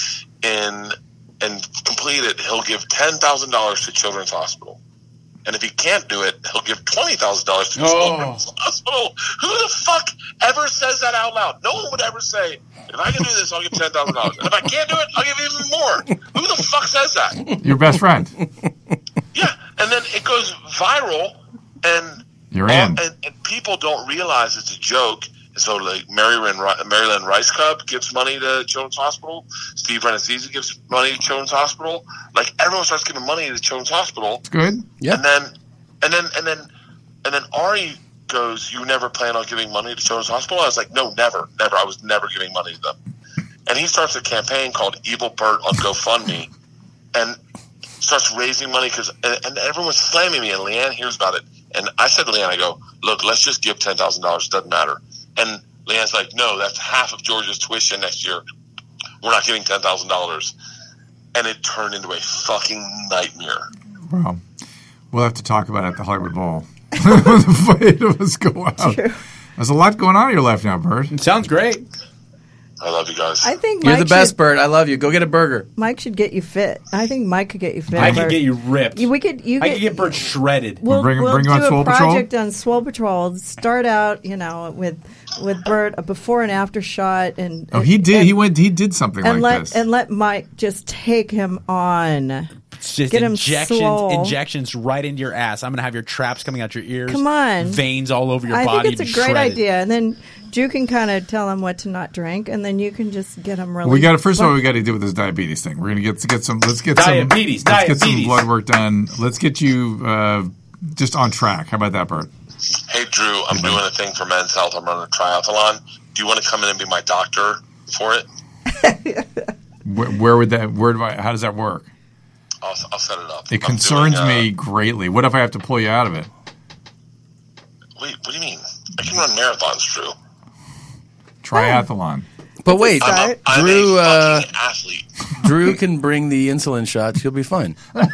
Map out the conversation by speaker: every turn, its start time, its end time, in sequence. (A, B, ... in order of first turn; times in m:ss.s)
0:00.4-0:04.8 A
0:05.4-0:17.5 A
0:07.8-0:08.4 B
0:17.6-0:18.4 C
0:19.3-0:34.4 A
0:22.5-0:23.0 C
0:34.4-0:34.9 C
0:35.0-0:36.7 A
0:37.2-0:43.0 A
0:43.6-0:46.5 A
0:48.0-0:58.4 A
0:59.2-1:00.5 A
1:01.3-1:03.7 A
1:04.1-1:04.4 C
1:05.1-1:09.0 C
1:08.8-1:09.2 D
1:09.6-1:11.1 C
1:11.1-1:11.8 B
1:12.8-1:13.5 A
1:13.4-1:14.4 D
1:13.8-1:15.7 E
1:15.8-1:20.2 D
1:17.9-1:20.8 B
1:20.8-1:28.4 D
1:20.9-1:22.3 C
1:27.7-1:29.8 C
1:29.2-1:32.5 D
1:32.8-1:39.6 B
1:33.1-1:34.4 D
1:37.1-1:37.8 D
1:38.5-1:44.6 D
1:43.8-1:52.3 C
1:46.9-1:48.5 B
1:52.8-1:58.2 A
1:53.5-1:53.8 C
1:58.8-1:59.4 D
1:59.8-2:01.9 C
2:02.6-2:04.5 A
2:03.5-2:06.3 C
2:08.0-2:10.1 A
2:11.4-2:12.2 C
2:11.5-2:11.8 D
2:12.6-2:14.5 E
2:12.7-2:13.4 D
2:13.0-2:15.1 A
2:15.4-2:17.8 E